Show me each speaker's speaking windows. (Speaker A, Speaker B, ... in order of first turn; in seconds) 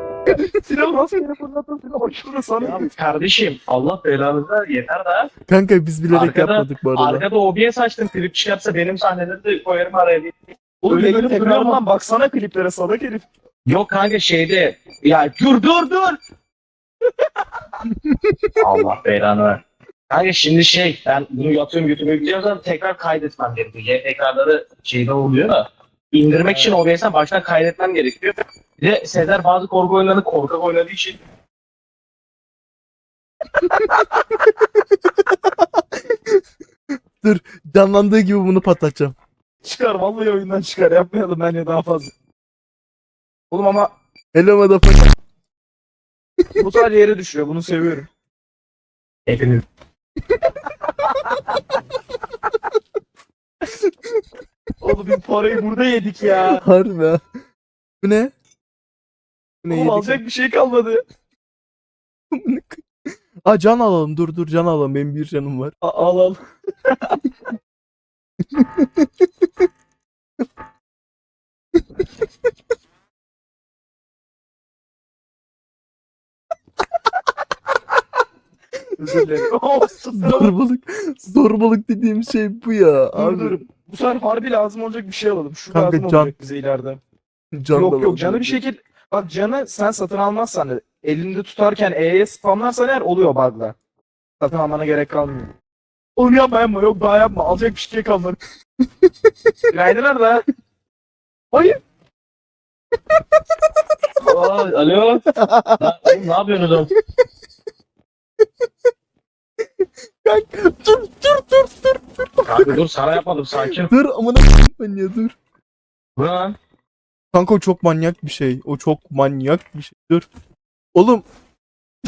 Speaker A: 0.3-2.9, 10.8-13.3, 33.6-34.0, 39.6-42.1, 43.5-43.9, 46.6-48.1, 50.9-51.6, 54.8-56.6, 59.7-61.0, 65.8-67.2, 79.0-80.5, 83.2-87.0, 87.7-93.8, 94.4-95.5, 96.2-98.4, 99.7-100.4, 101.5-101.8
Speaker B: 2.6-5.3, 6.1-11.8, 13.7-16.2, 18.6-19.6, 20.1-31.2, 49.3-49.6, 104.2-105.3, 105.8-106.9, 112.5-114.0, 116.2-116.6
Speaker C: 5.5-7.3, 17.9-18.5, 34.7-36.4, 37.2-39.1, 44.3-45.1, 56.4-57.2, 58.0-58.3, 59.6-60.2, 62.3-65.8, 68.5-69.7, 71.8-72.1, 80.1-83.6, 85.7-86.3, 87.5-88.6, 105.3-106.1, 109.6-112.8, 113.6-115.4, 117.3-120.3, 121.0-121.2